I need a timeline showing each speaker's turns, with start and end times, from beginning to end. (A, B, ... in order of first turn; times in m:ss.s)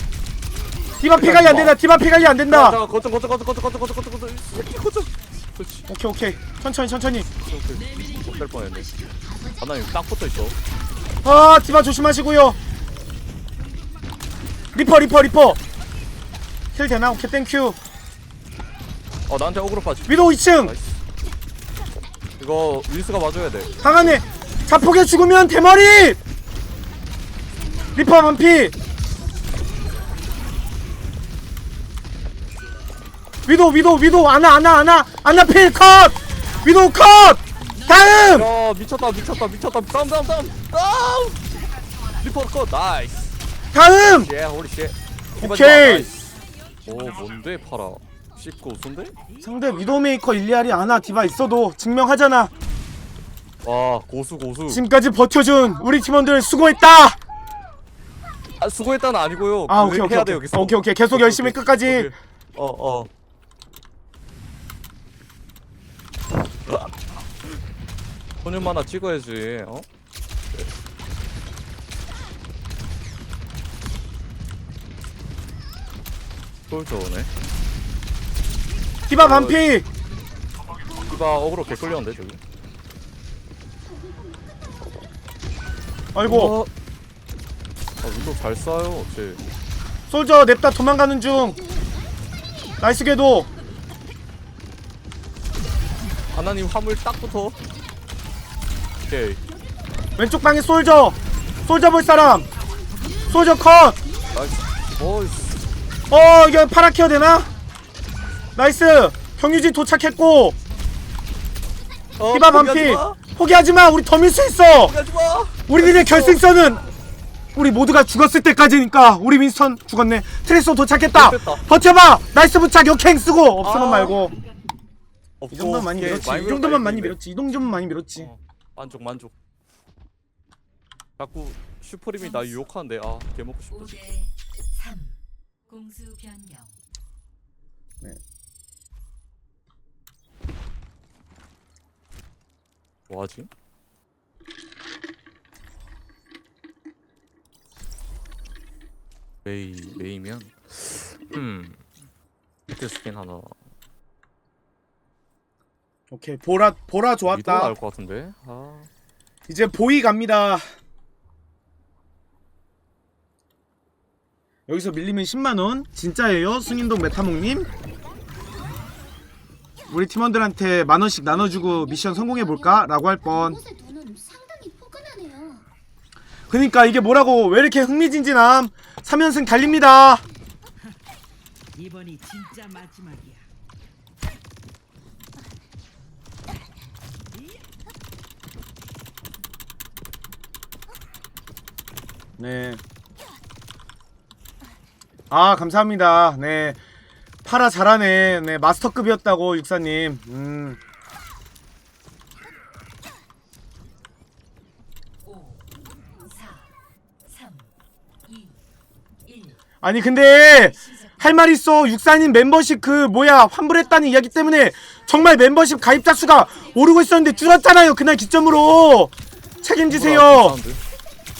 0:01.0-0:02.8 A
0:01.1-0:01.8 B
0:02.5-0:05.9 B
0:05.2-0:05.8 C
0:05.9-0:07.3 A
0:07.4-0:08.9 B
0:07.7-0:09.0 D
0:09.2-0:10.0 E
0:09.6-0:10.6 B
0:11.2-0:12.6 A
0:13.6-0:14.8 D
0:14.7-0:15.6 A
0:16.7-0:17.8 A
0:19.3-0:21.0 B
0:20.1-0:20.7 A
0:22.4-0:23.7 B
0:23.6-0:24.8 E
0:23.8-0:26.2 A
0:27.9-0:28.7 A
0:33.5-0:38.5 A
0:38.3-0:41.4 B
0:42.2-0:43.4 B
0:43.7-0:44.3 A
0:44.0-0:46.3 B
0:45.4-0:46.1 A
0:46.2-0:47.6 C
0:46.8-0:49.1 B
0:49.4-0:52.5 A
0:53.6-0:54.8 B
0:54.7-0:57.2 A
0:58.6-1:03.1 B
0:59.7-1:02.1 A
1:06.6-1:06.9 B
1:08.4-1:09.8 B
1:16.7-1:17.3 B
1:19.1-1:19.8 A
1:19.1-1:19.7 B
1:21.0-1:22.4 B
1:23.8-1:24.9 E
1:26.1-1:26.5 A
1:26.2-1:26.7 B
1:28.0-1:29.4 B
1:30.1-1:31.6 A
1:31.6-1:32.8 E
1:32.8-1:33.5 A
1:36.3-1:37.6 B
1:39.1-1:39.4 B
1:40.2-1:42.5 A
1:43.0-1:43.5 E
1:43.3-1:44.0 A
1:44.0-1:44.4 E
1:44.3-1:45.6 B
1:46.1-1:47.5 A
1:47.3-1:48.8 C
1:48.6-1:50.5 A
1:50.6-1:50.9 C
1:52.2-1:53.2 B
1:52.3-1:54.9 A
1:54.7-1:56.4 B
1:55.7-1:56.9 A
1:57.5-2:04.3 A
2:01.1-2:01.6 B
2:03.6-2:04.2 B
2:05.4-2:07.2 B
2:05.5-2:08.3 A
2:08.2-2:09.3 B
2:11.2-2:13.9 B
2:12.2-2:12.6 C
2:13.7-2:16.8 C
2:23.1-2:23.5 B
2:29.4-2:31.8 B
2:32.7-2:33.6 B
2:36.1-2:37.7 A
2:37.2-2:38.9 B
2:39.5-2:40.6 A
2:44.7-2:47.7 A
2:46.8-2:47.3 E
2:49.9-2:53.6 A
2:51.3-2:55.6 E
2:56.5-3:00.2 A
3:01.8-3:03.4 D
3:12.4-3:12.8 A
3:15.3-3:16.8 A
3:17.4-3:20.8 A
3:25.2-3:26.7 C
3:27.2-3:27.7 C
3:28.2-3:28.6 C
3:29.2-3:29.6 C
3:29.8-3:40.6 A
3:30.5-3:31.4 C
3:34.0-3:35.0 C
3:36.4-3:37.6 C
3:39.5-3:39.8 E
3:39.9-3:40.8 B